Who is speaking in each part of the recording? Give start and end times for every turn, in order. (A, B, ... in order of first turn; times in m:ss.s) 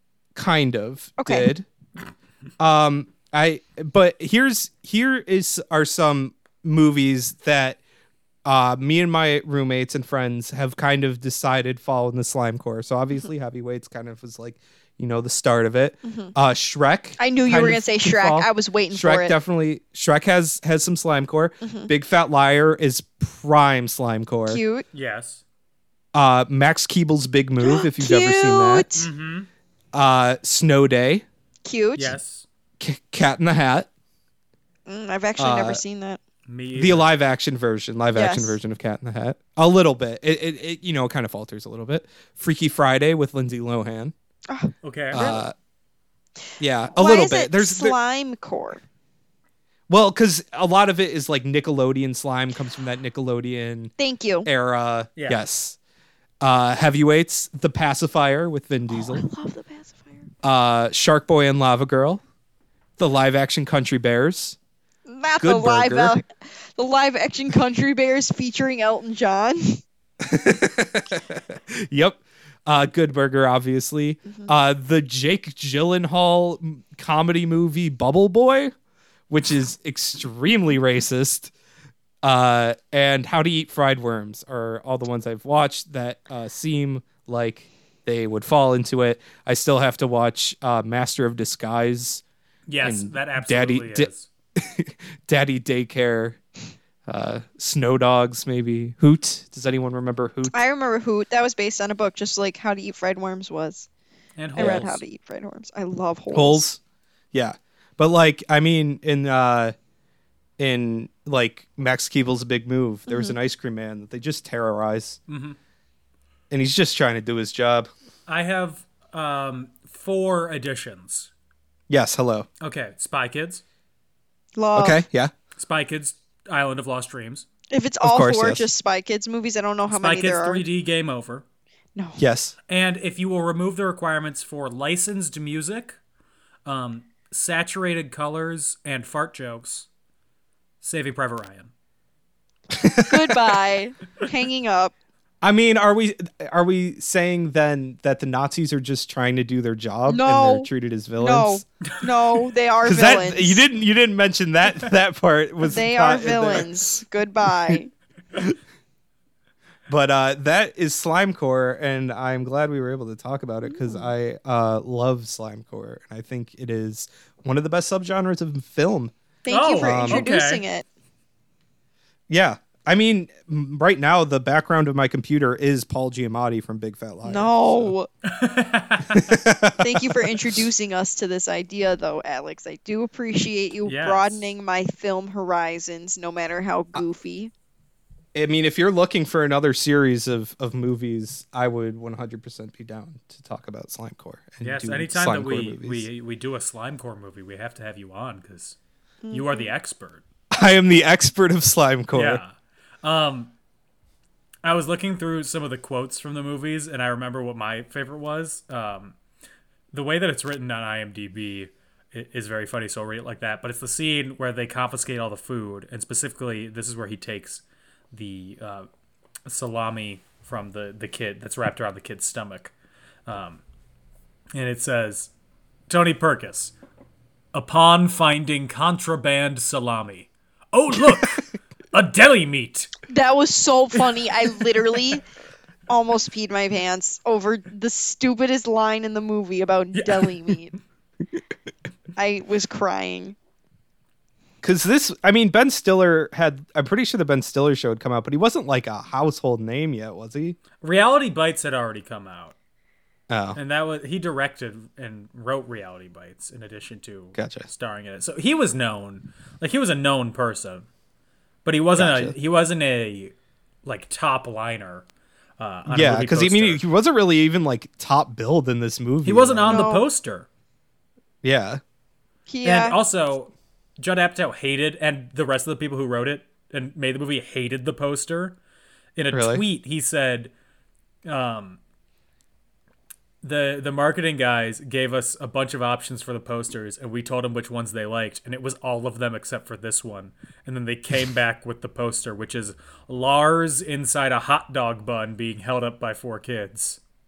0:00.4-0:01.7 A
0:01.2-0:01.5 B
0:02.6-0:07.8 A
0:08.4-0:24.6 A
0:16.0-0:16.3 B
0:17.2-0:19.3 B
0:21.6-0:21.9 B
0:24.5-0:24.8 B
0:24.9-0:25.4 C
0:26.1-0:28.9 A
0:27.6-0:29.1 B
0:29.0-0:29.5 C
0:29.9-0:31.2 A
0:31.6-0:32.1 B
0:32.0-0:32.5 C
0:32.8-0:33.9 A
0:34.9-0:36.2 B
0:35.4-0:35.8 A
0:36.5-0:37.1 C
0:36.7-0:44.1 A
0:38.1-0:38.6 B
0:44.5-0:45.4 B
0:44.8-0:45.3 C
0:45.1-0:45.5 A
0:46.6-0:48.0 A
0:47.0-0:48.8 B
0:49.9-0:53.9 A
0:54.0-0:54.5 B
0:54.4-0:55.8 A
0:56.4-0:59.3 A
0:58.9-1:00.3 B
1:00.4-1:02.2 A
1:03.0-1:04.6 A
1:05.1-1:09.8 B
1:05.4-1:06.2 A
1:10.2-1:18.7 A
1:19.3-1:21.5 A
1:22.2-1:32.2 A
1:32.7-1:34.3 C
1:32.8-1:36.4 A
1:37.1-1:40.6 A
1:40.5-1:43.9 B
1:44.4-1:45.0 C
1:44.6-1:44.9 A
1:44.6-1:46.7 B
1:46.3-1:46.8 A
1:47.3-1:49.8 A
1:50.6-1:55.2 A
1:53.1-1:53.3 B
1:55.3-1:55.6 C
1:56.5-1:57.9 A
1:58.3-2:01.3 C
2:01.9-2:02.5 A
2:02.6-2:03.6 C
2:04.6-2:05.0 B
2:04.7-2:05.3 A
2:05.6-2:07.5 C
2:07.7-2:10.6 B
2:08.0-2:08.7 A
2:09.9-2:11.4 C
2:12.0-2:12.2 B
2:12.2-2:12.6 A
2:12.7-2:16.0 C
2:16.7-2:19.9 C
2:20.8-2:21.7 C
2:22.8-2:23.3 A
2:23.0-2:24.9 B
2:25.4-2:31.6 A
2:30.1-2:30.7 B
2:31.2-2:33.6 B
2:32.8-2:36.7 A
2:35.7-2:37.9 B
2:39.9-2:49.1 A
2:43.7-2:44.1 B
2:49.4-2:50.9 B
2:49.5-2:50.6 C
2:49.8-2:50.3 A
2:52.3-2:58.0 A
2:57.2-2:58.1 B
2:58.3-2:59.4 C
2:59.1-3:00.1 A
2:59.8-3:07.5 B
3:03.8-3:04.4 C
3:08.3-3:16.1 A
3:14.6-3:18.8 C
3:19.2-3:19.7 B
3:19.3-3:20.2 C
3:20.5-3:22.4 A
3:22.1-3:23.5 C
3:24.6-3:29.2 C
3:29.9-3:38.9 C
3:39.5-3:42.7 C
3:43.3-3:43.6 C
3:44.5-3:45.3 C
3:45.9-3:46.7 C
3:47.5-3:52.9 C
3:53.1-3:55.2 B
3:55.9-4:00.8 B
3:59.9-4:00.5 C
4:02.2-4:03.4 B
4:04.6-4:10.6 A
4:10.8-4:12.6 C
4:13.3-4:13.6 A
4:13.6-4:20.9 C
4:17.4-4:17.7 A
4:21.6-4:25.0 C
4:22.0-4:22.4 A
4:25.6-4:26.8 C
4:25.9-4:29.9 A
4:29.2-4:30.5 C
4:29.7-4:30.0 B
4:31.4-4:31.8 A
4:32.5-4:33.0 B
4:32.6-4:38.6 C
4:39.2-4:40.5 C
4:39.3-4:39.6 A
4:41.2-4:41.8 C
4:43.4-4:57.0 C